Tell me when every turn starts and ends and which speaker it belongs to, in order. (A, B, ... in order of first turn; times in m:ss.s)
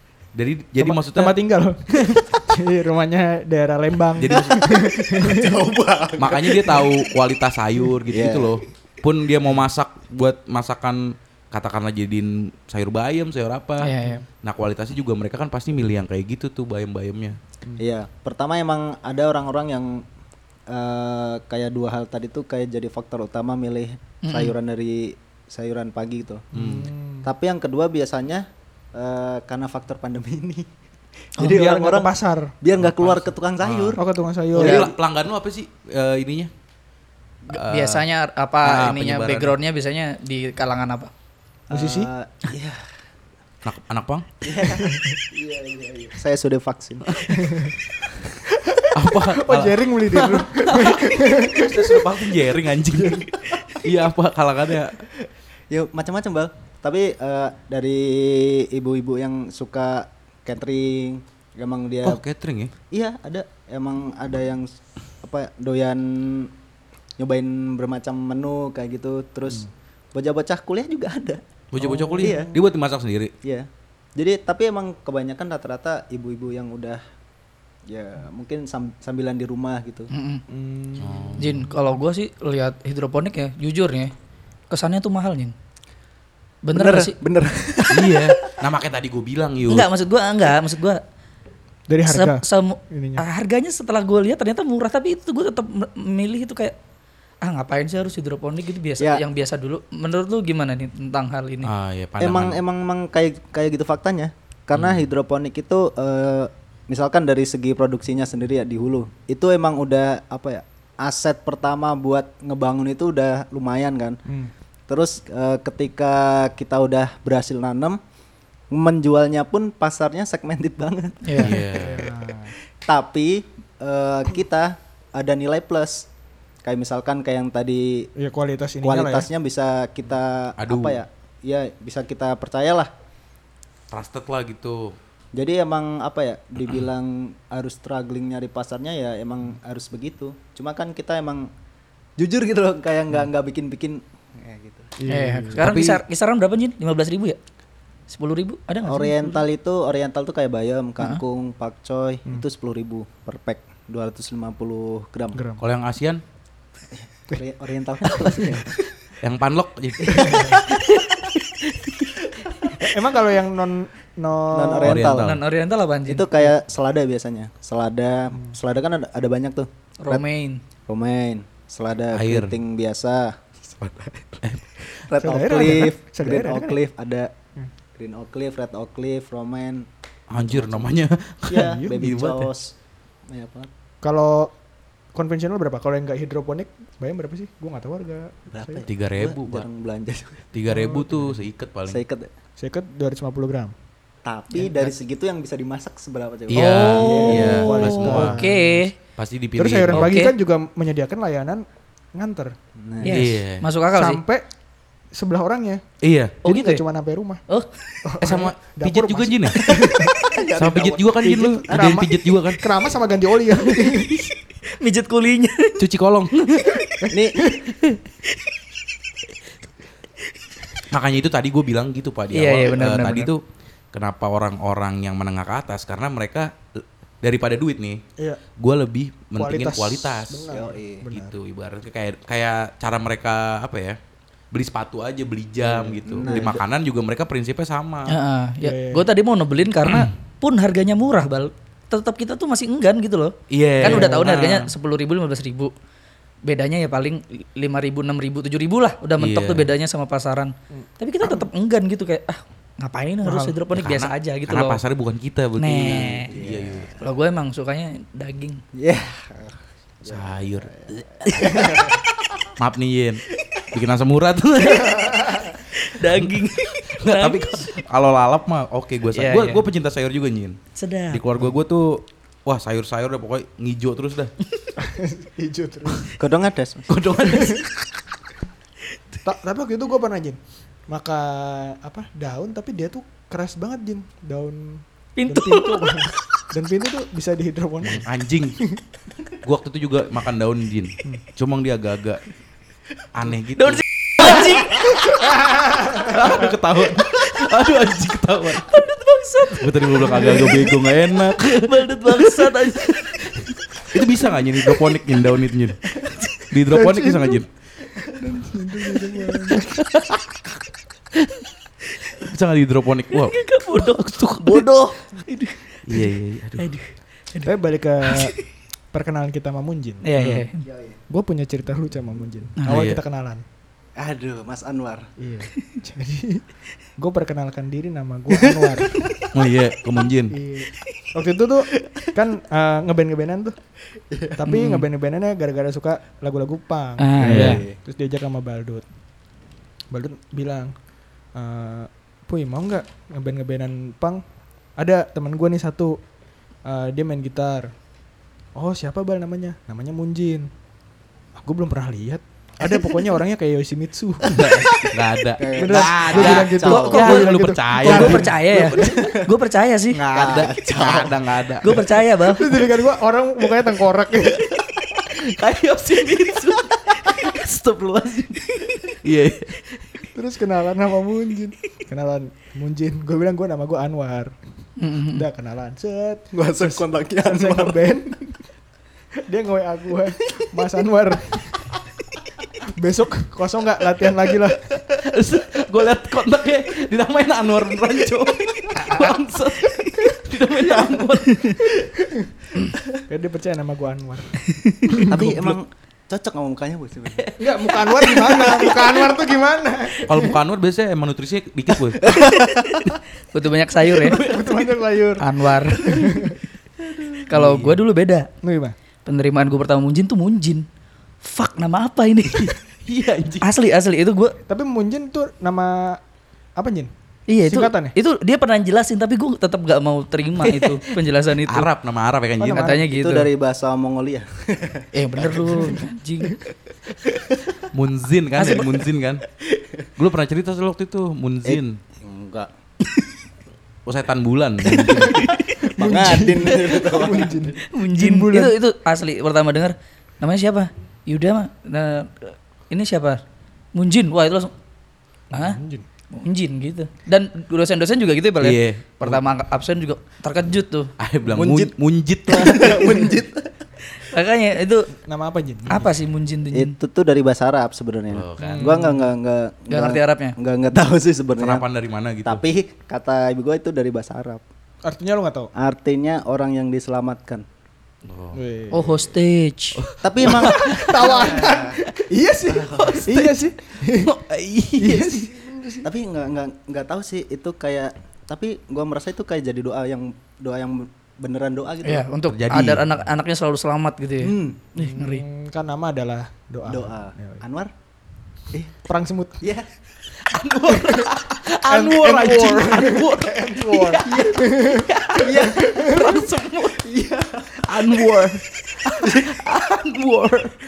0:00.3-0:01.4 A
0:00.8-0:05.6 B
0:02.0-0:02.2 A
0:04.2-0:04.8 A
0:04.4-0:06.9 C
0:06.2-0:17.4 A
0:08.1-0:08.6 C
0:13.8-0:14.2 D
0:17.8-0:20.0 C
0:20.7-0:26.4 C
0:24.2-0:24.5 D
0:26.5-0:26.9 A
0:26.5-0:27.3 B
0:27.2-0:30.7 C
0:31.3-0:34.0 C
0:31.4-0:32.5 B
0:32.8-0:34.0 A
0:34.0-0:34.9 B
0:34.5-0:36.5 A
0:34.6-0:34.9 C
0:37.5-0:38.0 A
0:37.5-0:41.1 D
0:38.6-0:39.6 A
0:41.7-0:42.8 C
0:41.7-0:42.1 B
0:43.6-0:44.3 A
0:44.4-0:47.2 C
0:44.8-0:45.2 B
0:47.3-0:47.7 B
0:48.5-0:52.2 B
0:48.9-0:55.0 A
0:52.9-0:53.3 B
0:55.7-1:02.2 C
1:02.0-1:02.7 A
1:02.9-1:06.5 C
1:07.2-1:11.4 C
1:11.7-1:13.3 A
1:11.8-1:12.5 B
1:12.2-1:12.5 C
1:13.4-1:17.0 C
1:17.9-1:20.1 C
1:20.1-1:20.4 D
1:20.5-1:21.4 B
1:21.0-1:21.7 A
1:21.4-1:24.1 D
1:24.7-1:25.5 D
1:26.6-1:27.1 D
1:26.7-1:28.3 C
1:27.9-1:29.9 A
1:29.7-1:31.0 D
1:31.9-1:33.2 B
1:32.0-1:36.8 D
1:37.4-1:41.7 D
1:41.6-1:42.6 A
1:42.2-1:54.2 C
1:44.7-1:45.0 A
1:54.2-1:54.5 B
1:54.9-1:58.0 C
1:58.7-2:01.6 C
2:01.2-2:01.6 D
2:01.4-2:02.1 A
2:01.4-2:02.5 B
2:02.8-2:06.1 C
2:06.6-2:08.1 C
2:08.2-2:09.3 B
2:08.8-2:12.9 C
2:10.6-2:11.0 A
2:13.9-2:15.0 A
2:15.3-2:21.5 C
2:22.2-2:24.9 C
2:25.0-2:25.6 B
2:25.1-2:27.4 D
2:25.6-2:26.0 A
2:28.1-2:29.4 D
2:28.8-2:35.4 C
2:35.3-2:35.6 B
2:35.6-2:36.2 A
2:37.0-2:38.8 C
2:39.2-2:40.6 A
2:40.1-2:40.5 C
2:42.8-2:45.1 B
2:44.5-2:45.3 C
2:44.8-2:45.4 A
2:45.2-2:46.3 D
2:46.0-2:50.2 C
2:50.0-2:50.6 D
2:50.9-2:57.3 C
2:52.1-2:52.6 A
2:54.4-2:54.7 A
2:55.2-2:56.8 B
2:58.0-3:00.9 C
3:00.3-3:02.5 A
3:01.5-3:02.7 C
3:01.5-3:02.0 B
3:03.3-3:03.7 C
3:04.0-3:04.5 B
3:05.1-3:08.9 B
3:08.5-3:10.5 C
3:08.9-3:09.6 A
3:10.5-3:12.0 A
3:10.7-3:11.4 B
3:11.9-3:12.3 C
3:12.6-3:13.7 B
3:14.2-3:17.6 C
3:16.5-3:18.4 A
3:16.5-3:18.9 D
3:17.0-3:18.9 B
3:19.2-3:20.2 A
3:19.6-3:22.5 B
3:19.9-3:20.3 D
3:22.8-3:23.2 C
3:23.0-3:24.2 D
3:23.1-3:23.6 A
3:23.9-3:24.4 B
3:25.1-3:25.8 B
3:26.0-3:26.4 A
3:26.4-3:26.8 D
3:26.4-3:27.4 B
3:28.0-3:30.3 B
3:28.2-3:29.6 A
3:29.7-3:31.9 C
3:30.6-3:32.6 A
3:31.2-3:34.2 B
3:33.6-3:34.0 D
3:34.7-3:35.8 D
3:35.8-3:36.8 A
3:37.1-3:37.4 C
3:40.9-3:43.4 A
3:42.3-3:43.3 D
3:43.9-3:48.0 A
3:48.6-3:50.5 A
3:49.4-3:51.3 B
3:50.5-3:51.0 C
3:51.1-3:54.0 A
3:54.5-3:58.2 A
3:55.6-3:56.5 B
3:56.0-3:56.6 C
3:58.1-4:05.7 D
3:58.6-3:59.0 B
3:59.9-4:00.1 A
4:03.5-4:04.7 A
4:03.8-4:04.4 B
4:06.4-4:14.8 D
4:09.2-4:09.7 A
4:10.7-4:11.4 B
4:13.2-4:13.6 B
4:13.7-4:16.9 A
4:15.6-4:16.3 D
4:16.3-4:17.0 C
4:17.0-4:18.6 D
4:18.7-4:22.0 C
4:20.0-4:21.5 A
4:22.6-4:25.3 A
4:25.5-4:27.7 D
4:26.0-4:30.6 A
4:29.1-4:29.6 D
4:30.7-4:31.2 D
4:31.1-4:34.3 A
4:34.8-4:36.2 B
4:36.2-4:36.9 C
4:36.9-4:37.7 A
4:37.3-4:37.6 B
4:39.2-4:48.0 B
4:45.2-4:46.1 D
4:47.8-4:48.6 A
4:49.4-4:52.2 A
4:53.1-4:54.6 A
4:53.6-4:55.0 D
4:55.9-4:58.8 A
4:58.6-5:00.7 D
4:59.5-5:03.0 A
5:00.1-5:00.6 B
5:01.3-5:03.5 D
5:03.9-5:07.5 A
5:06.7-5:07.4 B
5:08.2-5:09.7 B
5:09.6-5:10.2 A
5:12.2-5:13.4 A
5:13.1-5:18.4 D
5:14.0-5:14.7 A
5:15.9-5:16.7 A
5:17.4-5:18.3 B
5:18.9-5:20.3 B
5:20.0-5:20.6 D
5:20.2-5:20.4 A
5:20.6-5:21.0 C
5:21.1-5:23.4 B
5:22.6-5:22.8 D
5:22.7-5:23.0 A
5:24.0-5:25.1 C
5:25.2-5:26.4 B
5:27.0-5:29.1 B
5:28.3-5:29.3 C
5:29.3-5:30.4 A
5:30.3-5:33.6 B
5:34.1-5:34.4 C
5:34.4-5:38.8 B
5:34.5-5:34.9 D
5:37.0-5:37.6 D
5:37.2-5:37.6 A
5:37.3-5:37.8 C
5:39.9-5:40.7 B
5:41.3-5:44.2 B
5:44.8-5:46.0 B
5:46.6-5:47.7 B
5:48.6-5:50.5 B
5:51.4-5:54.4 B
5:54.3-5:59.1 A
5:54.6-5:54.9 C
5:55.4-5:57.1 C
5:55.6-5:58.7 B
5:56.6-6:00.0 D
5:58.8-5:59.3 C
5:59.9-6:01.9 A
6:00.1-6:01.2 C
6:01.6-6:02.6 D
6:02.2-6:04.4 B
6:04.4-6:09.9 A
6:10.1-6:14.3 B
6:14.8-6:15.2 D
6:15.1-6:18.3 B
6:16.3-6:17.9 C
6:19.2-6:21.5 B
6:22.8-6:24.6 B
6:24.7-6:31.8 A
6:31.3-6:31.6 D
6:32.0-6:32.3 B
6:33.1-6:35.5 B
6:35.0-6:37.3 C
6:37.2-6:38.8 A
6:37.4-6:40.4 B
6:40.0-6:42.2 A
6:42.0-6:43.0 C
6:43.3-6:44.2 D
6:43.9-6:44.7 A
6:44.1-6:45.2 B
6:45.2-6:46.3 D
6:45.8-6:46.4 B
6:47.0-6:47.7 A
6:47.3-6:48.3 D
6:48.4-6:48.7 B
6:49.0-6:50.6 D
6:51.2-6:52.6 D
6:52.2-6:53.5 A
6:53.4-6:54.4 D
6:54.5-6:56.0 B
6:56.6-6:56.9 B
6:57.3-7:01.7 D
6:57.4-6:57.9 B
7:00.4-7:02.8 A
7:02.4-7:02.8 B
7:02.5-7:03.3 D
7:02.9-7:05.7 C
7:04.9-7:06.4 D
7:07.0-7:07.3 C
7:07.7-7:09.2 A
7:08.4-7:08.8 D
7:09.6-7:09.9 C
7:10.0-7:11.8 A
7:11.4-7:12.5 C
7:13.9-7:15.4 A
7:15.6-7:18.5 B
7:15.8-7:17.5 C
7:17.7-7:23.2 D
7:23.7-7:24.5 D
7:25.3-7:25.6 D
7:25.3-7:25.8 B
7:26.1-7:30.9 D
7:28.4-7:29.2 A
7:31.0-7:33.0 A
7:31.3-7:31.7 C
7:32.3-7:33.5 C
7:34.0-7:34.9 D
7:35.1-7:35.9 B
7:35.7-7:36.7 D
7:36.5-7:41.6 C
7:38.1-7:38.7 A
7:38.4-7:39.1 B
7:39.7-7:40.3 D
7:41.4-7:42.4 A
7:42.2-7:44.4 C
7:44.8-7:45.5 B
7:45.5-7:47.4 C
7:48.0-7:48.4 A
7:48.3-7:49.1 B
7:48.7-7:49.8 D
7:49.8-7:51.5 A
7:50.0-7:51.8 C
7:50.3-7:54.1 B
7:52.5-7:53.2 C
7:52.7-7:55.3 A
7:54.8-7:55.9 B
7:55.8-8:02.0 C
8:01.8-8:05.2 D
8:02.3-8:02.9 A
8:04.2-8:04.8 C
8:04.8-8:07.4 B
8:06.6-8:07.7 C
8:08.9-8:09.4 B
8:09.4-8:09.7 C
8:10.2-8:16.9 A
8:10.7-8:11.1 B
8:11.6-8:14.9 B
8:14.1-8:14.4 C
8:15.1-8:16.2 C
8:15.4-8:16.2 B
8:16.8-8:17.7 C
8:17.5-8:20.6 A
8:18.9-8:19.4 C